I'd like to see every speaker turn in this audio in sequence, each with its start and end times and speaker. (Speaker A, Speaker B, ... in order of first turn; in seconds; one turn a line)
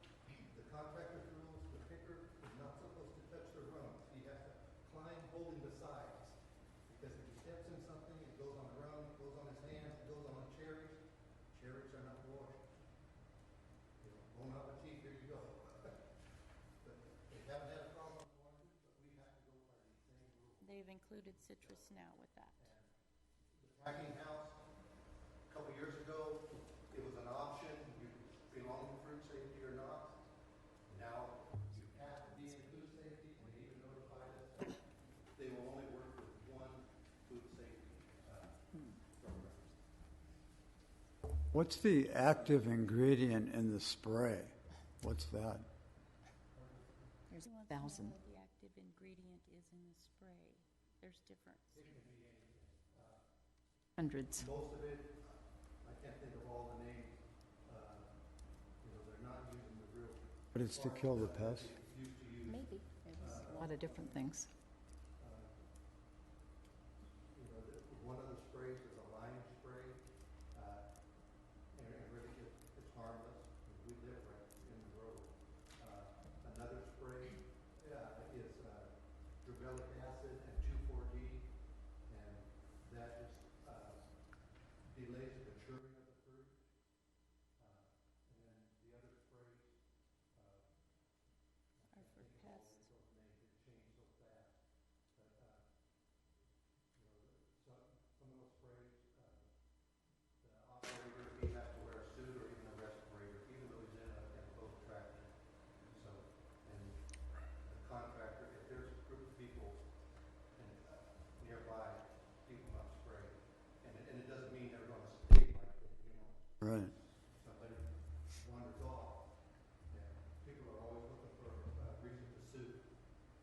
Speaker A: 0.4-6.4
Speaker A: 6.9-11.0
Speaker A: 11.6-12.6
Speaker A: 14.0-16.0
Speaker A: 16.8-20.7
Speaker B: 20.6-22.7
Speaker A: 21.6-21.9
Speaker A: 22.6-22.9
Speaker A: 23.5-24.6
Speaker A: 25.5-30.2
Speaker A: 30.9-34.8
Speaker A: 35.3-39.7
Speaker C: 41.5-45.7
Speaker A: 46.5-47.1
Speaker D: 47.3-48.2
Speaker B: 47.4-51.8
Speaker A: 51.7-53.2
Speaker D: 54.0-54.5
Speaker A: 54.3-58.1
Speaker A: 58.8-64.2
Speaker C: 60.5-61.7
Speaker D: 62.5-64.5
Speaker B: 63.2-63.7
Speaker A: 65.2-65.6
Speaker A: 67.3-70.9
Speaker A: 71.7-81.5
Speaker A: 82.1-84.1
Speaker A: 84.8-86.6
Speaker A: 87.6-89.8
Speaker A: 90.3-90.7
Speaker A: 91.8-94.5
Speaker B: 91.9-92.8
Speaker A: 95.1-95.7
Speaker A: 96.9-99.5
Speaker A: 100.4-105.3
Speaker A: 105.9-107.0
Speaker A: 107.6-109.8
Speaker A: 110.5-116.5
Speaker C: 116.6-116.9
Speaker A: 117.3-119.3
Speaker A: 119.9-122.8